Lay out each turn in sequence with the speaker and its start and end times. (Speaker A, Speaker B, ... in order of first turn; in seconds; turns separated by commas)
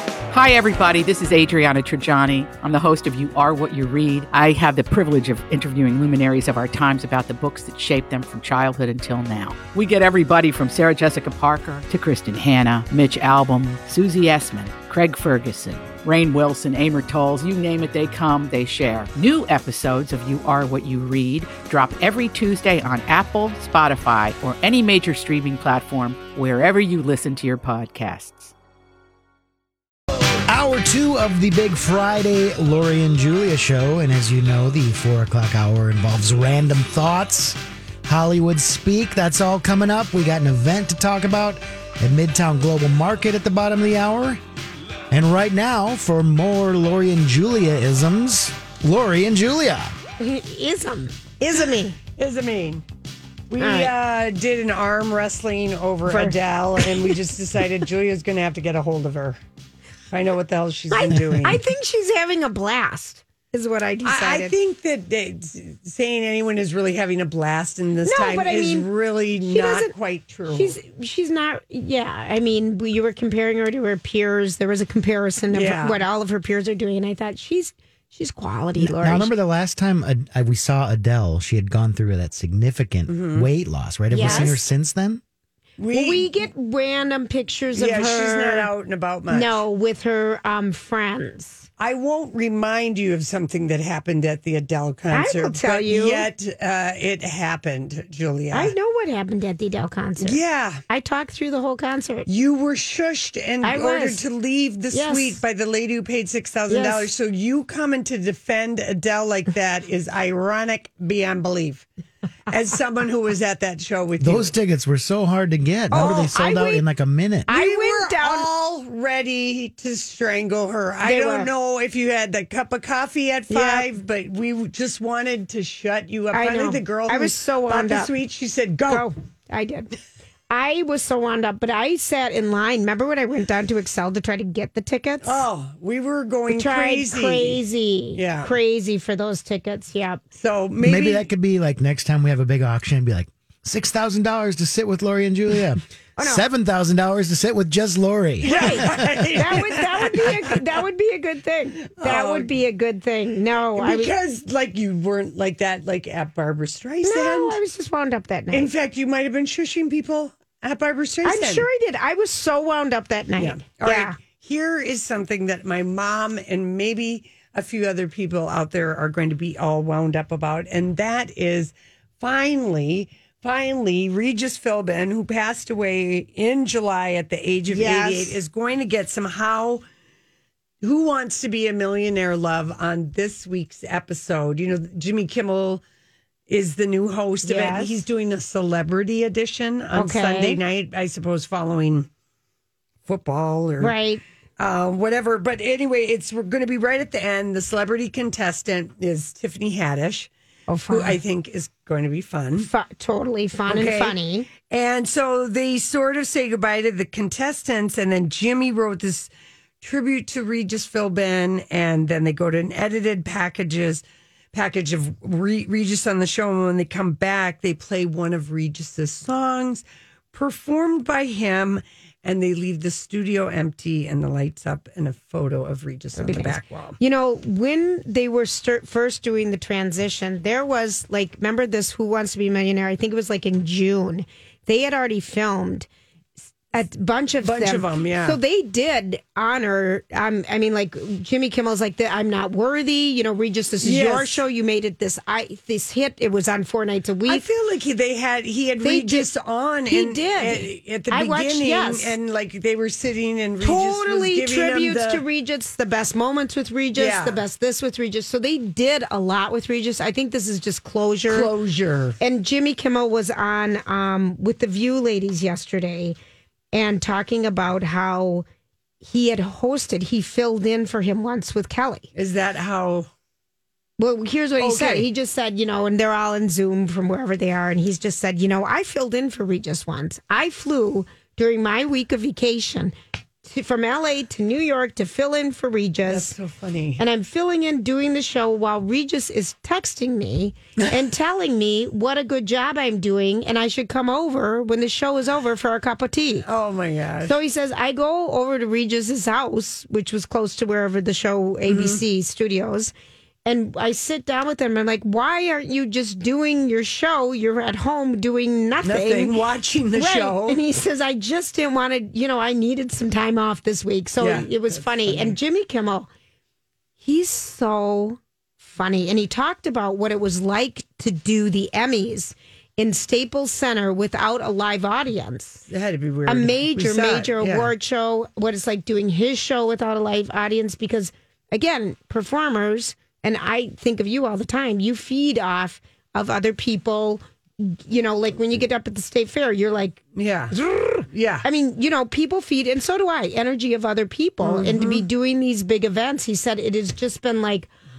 Speaker A: 0.3-28.5, Speaker B: 30.4-44.4, Speaker B: 45.1-49.9, Speaker C: 50.2-52.0, Speaker D: 52.2-52.8, Speaker D: 53.5-59.4, Speaker C: 53.6-53.9, Speaker C: 56.1-57.1, Speaker D: 60.1-61.6, Speaker C: 60.9-64.5, Speaker D: 64.0-70.8, Speaker C: 68.0-68.9, Speaker C: 69.4-69.9, Speaker C: 70.5-79.3, Speaker D: 75.5-76.0, Speaker B: 78.8-85.2, Speaker D: 83.1-83.5, Speaker C: 84.1-84.6, Speaker D: 84.2-84.6, Speaker D: 85.8-86.3, Speaker C: 85.9-88.7, Speaker D: 87.7-89.6, Speaker C: 89.3-91.7, Speaker D: 91.8-98.7, Speaker C: 95.1-96.3, Speaker C: 98.5-102.3, Speaker D: 100.2-100.8, Speaker D: 102.2-111.8, Speaker C: 103.6-104.2, Speaker C: 104.9-105.4, Speaker C: 106.7-107.1, Speaker D: 112.5-114.5, Speaker B: 114.2-117.5, Speaker C: 115.9-116.8, Speaker C: 117.5-118.5, Speaker D: 117.5-129.1, Speaker C: 121.0-121.5, Speaker C: 123.5-123.9, Speaker C: 126.3-128.1, Speaker C: 128.9-129.9, Speaker C: 130.5-135.4, Speaker D: 135.2-137.6, Speaker C: 136.5-140.2, Speaker D: 138.1-138.5, Speaker D: 140.3-141.3, Speaker B: 140.8-149.2, Speaker C: 146.2-146.4, Speaker D: 148.4-150.6, Speaker C: 148.4-154.1, Speaker D: 152.0-152.5, Speaker D: 153.8-157.6, Speaker C: 157.0-158.7, Speaker D: 158.5-161.7, Speaker C: 161.2-164.2, Speaker D: 163.4-179.8, Speaker C: 177.7-178.4, Speaker D: 180.8-185.8, Speaker D: 186.5-192.1, Speaker C: 187.4-188.0, Speaker C: 189.9-190.6, Speaker D: 193.1-193.9, Speaker C: 193.8-194.2, Speaker D: 194.6-200.3, Speaker C: 200.7-201.2, Speaker D: 200.9-202.7, Speaker C: 202.6-204.5, Speaker D: 203.7-209.3, Speaker D: 209.8-226.9, Speaker C: 226.1-235.9, Speaker C: 236.7-247.4, Speaker D: 237.4-238.4, Speaker D: 243.8-244.4, Speaker D: 247.2-255.2, Speaker C: 248.8-249.3, Speaker C: 249.9-252.1, Speaker C: 253.6-261.5, Speaker D: 256.9-257.4, Speaker D: 261.3-262.2, Speaker C: 262.2-266.1, Speaker C: 266.7-268.4, Speaker C: 269.0-272.1, Speaker D: 272.1-273.1, Speaker C: 274.0-286.3, Speaker D: 274.6-275.1, Speaker D: 286.1-287.0, Speaker C: 287.0-296.4, Speaker D: 296.4-297.3, Speaker C: 297.2-302.9, Speaker D: 301.7-302.0, Speaker C: 303.4-309.4, Speaker D: 308.8-310.6, Speaker C: 309.9-316.1, Speaker D: 314.2-315.4, Speaker C: 317.0-325.6, Speaker D: 325.7-327.7, Speaker C: 326.2-347.7, Speaker D: 340.1-340.6, Speaker D: 341.1-341.4, Speaker D: 344.4-345.1